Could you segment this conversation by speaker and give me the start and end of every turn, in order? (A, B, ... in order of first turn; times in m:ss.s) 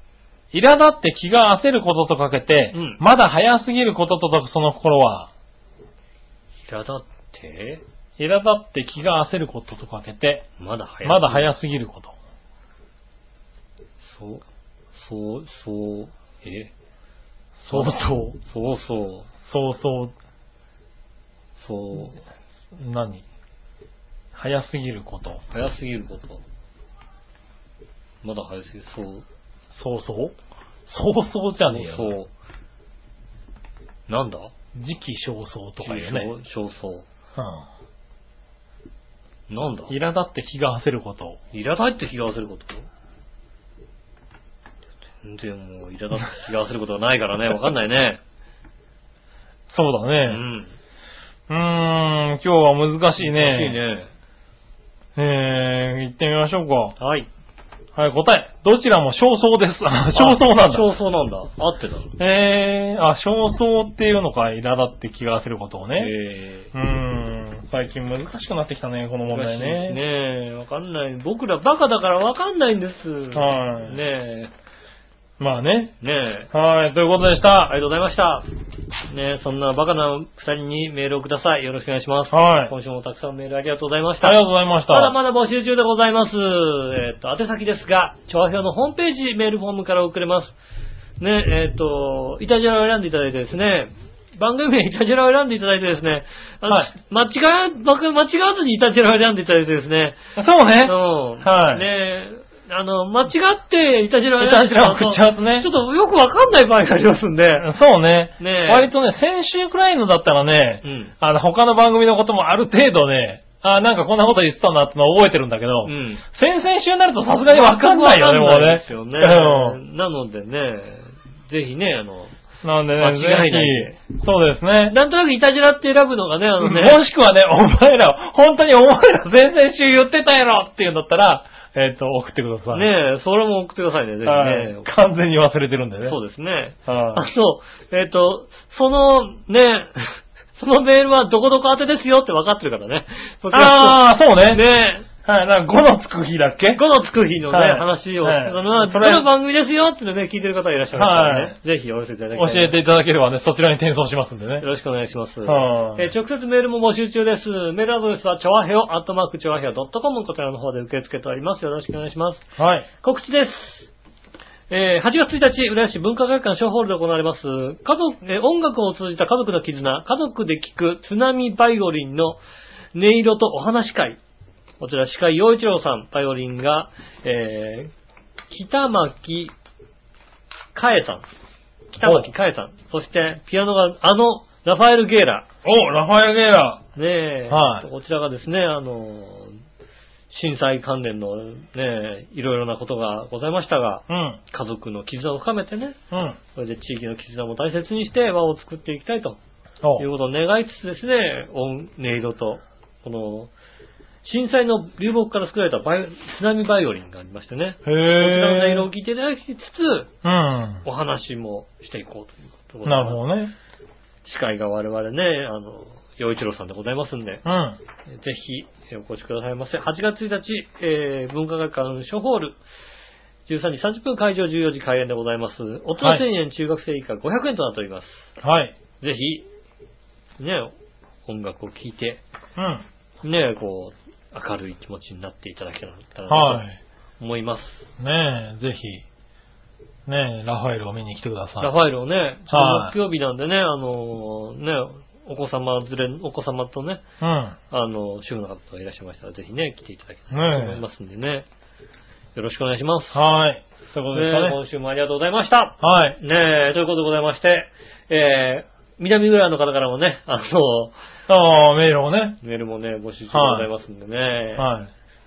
0:00.5-0:05.3 A
0:02.7-0:03.0 B
0:06.7-0:07.8 B
0:08.2-0:10.5 A
0:10.6-0:11.5 B
0:11.0-0:12.1 A
0:14.0-0:16.7 B
0:17.6-0:18.4 A
0:17.7-0:19.3 B
0:19.4-0:20.1 A
0:21.6-0:22.2 B
0:22.7-0:23.2 A
0:24.3-0:25.4 A
0:25.5-0:26.4 B
0:28.2-0:29.2 B
0:29.7-0:30.4 A
0:30.9-0:32.2 A
0:31.7-0:32.3 B
0:34.1-0:34.5 B
0:34.8-0:36.3 A
0:35.8-0:37.1 B
0:37.4-0:37.7 A
0:39.5-0:39.9 B
0:39.9-0:41.4 A
0:41.5-0:42.9 B
0:45.2-0:48.2 B
0:49.7-0:50.4 A
0:50.2-0:50.7 B
0:51.5-0:53.8 A
0:53.2-0:54.1 B
0:55.2-0:57.0 A
0:57.0-0:57.3 B
0:58.0-1:00.9 A
1:00.2-1:02.2 B
1:02.2-1:06.1 A
1:06.0-1:06.7 B
1:06.7-1:10.0 A
1:09.3-1:14.5 B
1:13.3-1:14.0 A
1:15.4-1:15.9 A
1:16.0-1:16.5 B
1:16.5-1:17.7 A
1:17.7-1:18.5 B
1:19.1-1:30.6 B
1:22.3-1:22.7 A
1:24.2-1:25.2 A
1:31.2-1:40.2 B
1:40.4-1:41.8 A
1:40.8-1:47.7 B
1:44.4-1:45.7 A
1:47.6-1:59.8 A
1:48.4-1:48.9 B
1:50.8-1:51.1 B
1:55.8-1:56.2 B
1:57.4-2:02.4 B
2:02.6-2:05.0 A
2:03.0-2:04.0 B
2:04.9-2:07.0 B
2:06.6-2:12.9 A
2:12.7-2:14.9 B
2:14.2-2:16.2 A
2:16.0-2:25.1 B
2:16.9-2:17.2 A
2:23.5-2:24.6 A
2:25.2-2:26.8 A
2:26.7-2:32.8 B
2:27.5-2:29.3 A
2:30.9-2:31.6 A
2:32.3-2:34.6 A
2:34.6-2:42.4 B
2:35.4-2:36.1 A
2:42.6-2:42.9 A
2:43.0-2:43.9 B
2:44.7-2:52.4 B
2:53.0-2:54.2 B
2:54.8-2:57.9 B
2:58.5-2:59.5 B
3:00.8-3:01.2 B
3:01.9-3:05.5 B
3:02.0-3:02.3 A
3:05.6-3:06.8 A
3:07.0-3:09.6 B
3:07.5-3:07.9 A
3:10.3-3:16.0 B
3:14.1-3:14.4 A
3:16.1-3:16.4 A
3:16.6-3:19.4 B
3:20.0-3:23.5 B
3:24.2-3:30.1 B
3:27.8-3:28.9 A
3:30.2-3:30.8 A
3:30.8-3:33.2 B
3:32.8-3:33.5 A
3:34.2-3:37.4 B
3:37.4-3:37.8 A
3:38.1-3:42.6 B
3:43.5-3:48.3 B
3:48.4-3:48.7 A
3:49.0-3:49.4 B
3:50.4-3:50.7 B
3:51.3-3:52.2 B
3:52.6-3:52.8 A
3:53.2-3:56.7 B
3:56.3-3:56.8 A
3:57.2-3:57.9 B
3:58.0-3:59.0 A
4:00.1-4:01.7 A
4:01.6-4:07.0 B
4:02.5-4:03.0 A
4:07.2-4:07.6 A
4:07.7-4:11.5 B
4:10.3-4:10.8 A
4:12.4-4:13.2 B
4:13.1-4:14.6 A
4:14.1-4:20.9 B
4:15.8-4:16.2 A
4:21.3-4:22.4 A
4:22.4-4:24.7 B
4:23.3-4:23.7 A
4:24.6-4:24.9 A